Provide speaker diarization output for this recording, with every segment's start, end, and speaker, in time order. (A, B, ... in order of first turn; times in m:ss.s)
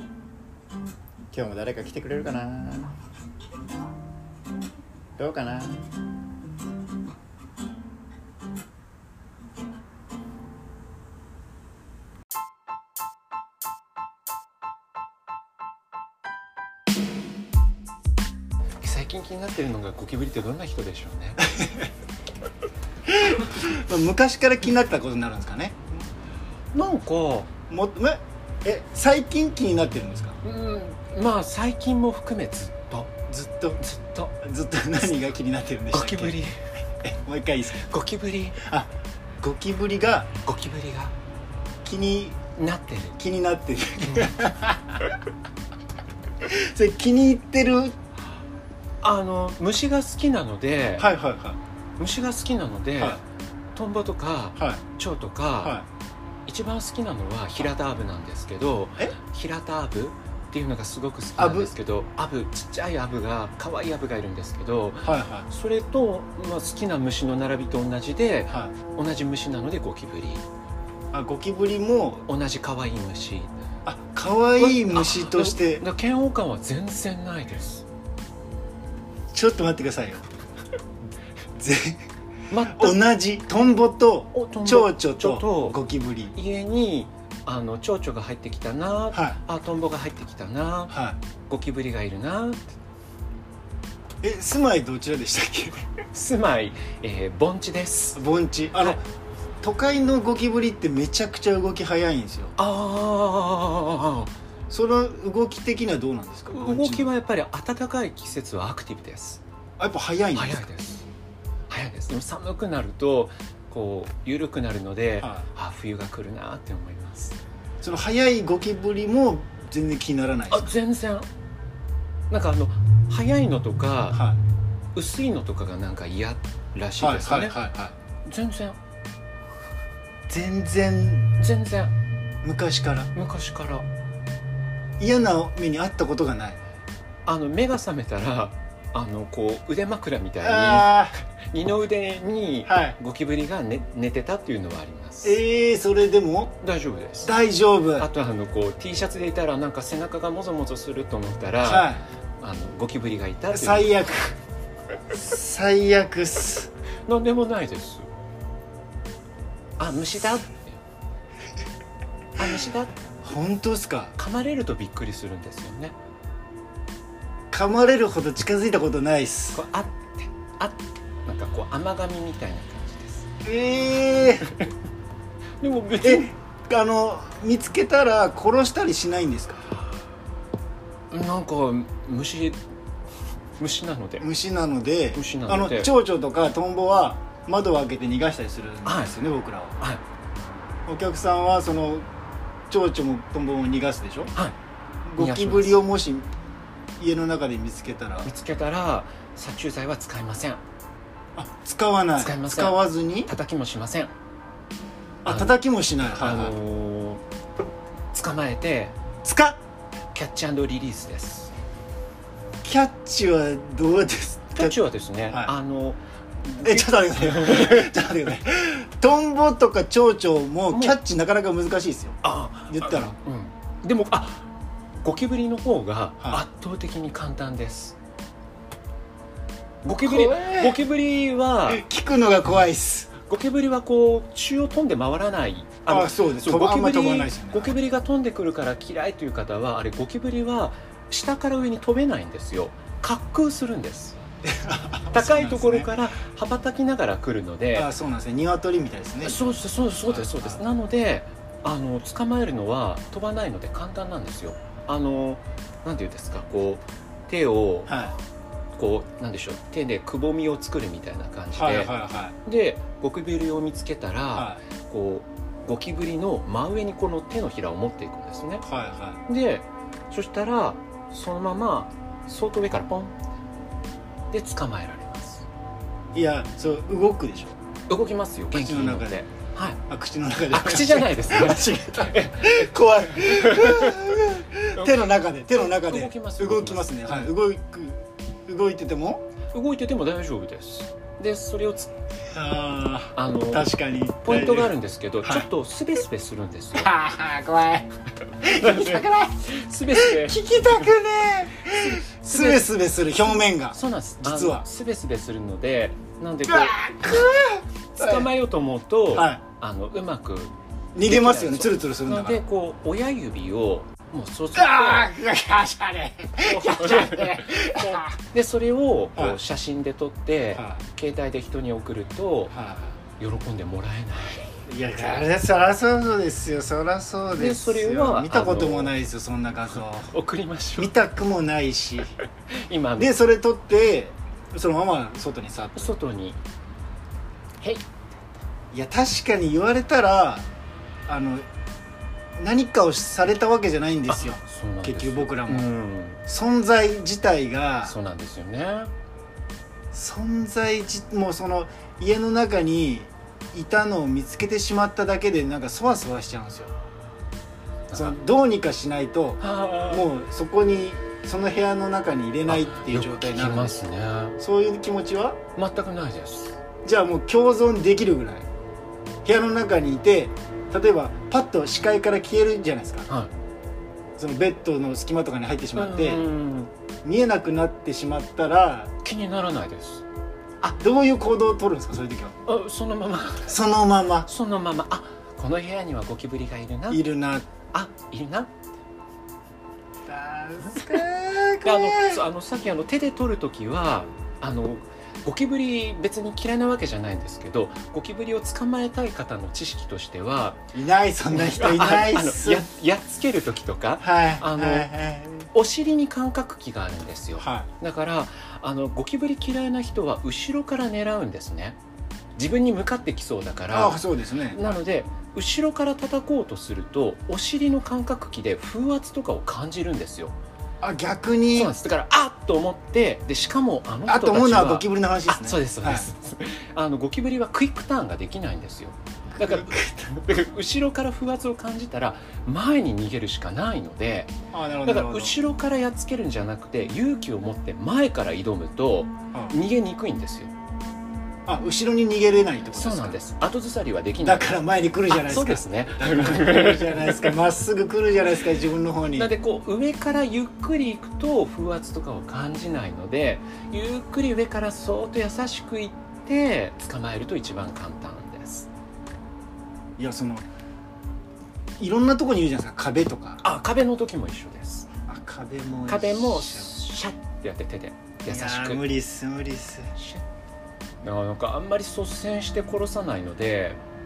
0:01.3-0:02.9 A
0:05.2-0:05.9 A
0:18.8-0:21.6 B
0:23.1-0:25.8 C
0:26.7-0:27.5 B
0:27.7-0:30.4 C
0:30.4-0:33.1 B
0:33.3-0:33.8 C
0:33.8-0:34.3 B
0:34.4-0:36.4 C
0:35.9-0:36.6 B
0:37.0-0:37.9 C
0:37.8-0:38.6 B
0:38.6-0:38.9 C
0:39.4-0:40.3 C
0:40.4-0:41.1 B
0:41.8-0:42.4 C
0:42.6-0:43.2 B
0:43.2-0:45.1 C
0:46.4-0:48.0 C
0:49.0-0:51.1 B
0:51.0-0:51.6 C
0:52.0-0:53.2 B
0:53.8-0:55.8 B
0:56.5-1:10.4 B
1:01.4-1:01.7 C
1:05.0-1:05.5 C
1:11.1-1:12.2 C
1:12.3-1:13.6 B
1:13.8-1:15.8 C
1:14.6-1:17.8 B
1:19.3-1:20.3 C
1:21.6-1:22.0 C
1:22.5-1:23.0 B
1:22.6-1:26.4 C
1:24.3-1:25.8 B
1:26.3-1:30.9 B
1:29.1-1:29.4 C
1:30.9-1:31.2 C
1:31.5-1:32.8 B
1:34.2-1:35.8 C
1:36.1-1:38.2 B
1:38.2-1:39.0 C
1:39.6-1:42.6 C
1:42.6-1:44.3 B
1:44.7-1:47.1 C
1:46.5-1:49.4 B
1:49.8-1:50.7 C
1:50.3-1:51.1 B
1:51.7-1:57.4 B
1:57.8-2:00.7 C
2:00.5-2:01.3 B
2:02.3-2:04.2 B
2:04.1-2:04.4 C
2:05.0-2:07.6 B
2:07.0-2:07.9 C
2:08.2-2:08.8 B
2:10.3-2:11.3 C
2:11.4-2:11.9 B
2:12.4-2:13.1 C
2:13.2-2:13.9 B
2:15.0-2:16.6 C
2:17.3-2:25.4 B
2:20.4-2:21.2 C
2:22.7-2:23.0 C
2:25.2-2:26.5 C
2:26.6-2:27.3 B
2:27.2-2:28.1 C
2:28.0-2:33.9 B
2:31.6-2:32.0 C
2:33.5-2:34.4 C
2:35.1-2:36.7 C
2:37.1-2:38.1 B
2:39.8-2:40.8 B
2:42.4-2:42.9 B
2:43.2-2:44.2 C
2:44.2-2:46.0 B
2:47.5-2:49.6 C
2:49.5-2:53.3 B
2:53.4-2:54.5 C
2:55.6-2:56.3 B
2:56.0-2:59.6 C
3:01.1-3:02.6 B
3:03.6-3:04.3 B
3:04.2-3:09.8 C
3:05.1-3:05.9 B
3:08.8-3:09.2 B
3:10.9-3:12.1 C
3:12.7-3:14.3 C
3:15.1-3:16.3 C
3:15.2-3:15.8 B
3:17.0-3:18.3 C
3:18.2-3:20.6 B
3:21.4-3:23.3 C
3:22.2-3:24.1 B
3:25.2-3:26.6 C
3:25.3-3:25.6 B
3:26.2-3:27.2 B
3:28.1-3:29.0 B
3:29.2-3:29.6 C
3:30.1-3:31.5 B
3:32.6-3:34.8 C
3:34.6-3:38.0 B
3:35.3-3:35.5 C
3:36.6-3:43.2 C
3:40.7-3:41.0 B
3:42.2-3:44.5 B
3:45.0-3:48.0 B
3:49.8-3:51.9 B
3:50.0-3:50.8 C
3:51.7-3:53.1 C
3:53.2-4:04.2 B
3:55.9-3:57.8 C
4:04.4-4:05.9 C
4:05.1-4:07.9 B
4:07.8-4:09.4 C
4:09.2-4:18.0 B
4:10.0-4:10.6 C
4:17.9-4:18.2 C
4:18.8-4:28.6 B
4:21.6-4:22.4 C
4:24.4-4:24.6 C
4:28.7-4:29.2 C
4:29.3-4:33.2 B
4:34.3-4:35.5 B
4:36.2-4:37.5 C
4:37.9-4:39.8 B
4:38.5-4:39.2 C
4:39.9-4:49.2 C
4:40.5-4:47.3 B
4:49.5-4:51.9 B
4:52.3-4:55.5 C
4:53.2-4:53.7 B
4:54.2-4:56.9 B
4:56.8-4:57.9 C
4:58.4-5:04.6 C
4:58.4-5:00.9 B
5:01.7-5:07.2 B
5:06.4-5:08.3 C
5:08.0-5:15.1 B
5:09.1-5:09.4 C
5:11.0-5:12.4 C
5:14.5-5:18.1 C
5:16.4-5:22.5 B
5:20.6-5:20.8 C
5:22.5-5:23.0 C
5:23.2-5:24.5 B
5:24.7-5:30.1 C
5:27.3-5:28.9 B
5:29.7-5:30.9 B
5:30.8-5:32.2 C
5:32.5-5:33.2 B
5:33.0-5:36.0 C
5:35.8-5:36.4 B
5:37.6-5:37.9 B
5:38.7-5:40.5 C
5:41.1-5:41.4 C
5:42.4-5:45.7 C
5:44.1-5:46.2 B
5:46.3-5:48.0 C
5:47.8-5:48.9 B
5:49.9-5:56.7 C
5:57.9-5:58.2 B
5:57.9-6:03.8 C
5:59.4-6:00.1 B
6:02.5-6:04.4 B
6:04.4-6:05.4 C
6:05.6-6:06.6 B
6:06.8-6:08.5 C
6:09.2-6:13.1 C
6:14.2-6:16.2 C
6:15.7-6:16.7 B
6:17.0-6:18.9 C
6:19.0-6:20.0 B
6:20.7-6:22.4 C
6:22.5-6:23.6 B
6:23.5-6:24.3 C
6:24.2-6:27.0 B
6:26.9-6:27.5 C
6:27.7-6:28.5 B
6:30.1-6:32.2 C
6:31.6-6:40.6 B
6:40.7-6:42.7 C
6:41.3-6:44.9 B
6:44.0-6:45.5 C
6:45.5-6:51.8 B
6:47.4-6:47.7 C
6:52.4-7:00.4 B
6:53.7-6:54.8 C
7:00.8-7:01.7 C
7:01.5-7:20.5 B
7:04.1-7:06.1 C
7:09.3-7:10.1 C
7:14.5-7:15.4 C
7:21.5-7:23.2 C
7:22.7-7:27.4 B
7:24.2-7:29.3 C
7:29.1-7:38.7 B
7:40.0-7:40.4 C
7:41.8-7:43.4 C
7:43.4-7:44.9 B
7:45.1-7:46.8 C
7:45.9-7:48.9 B
7:48.3-7:49.9 C
7:50.0-7:50.2 B
7:51.0-7:53.8 B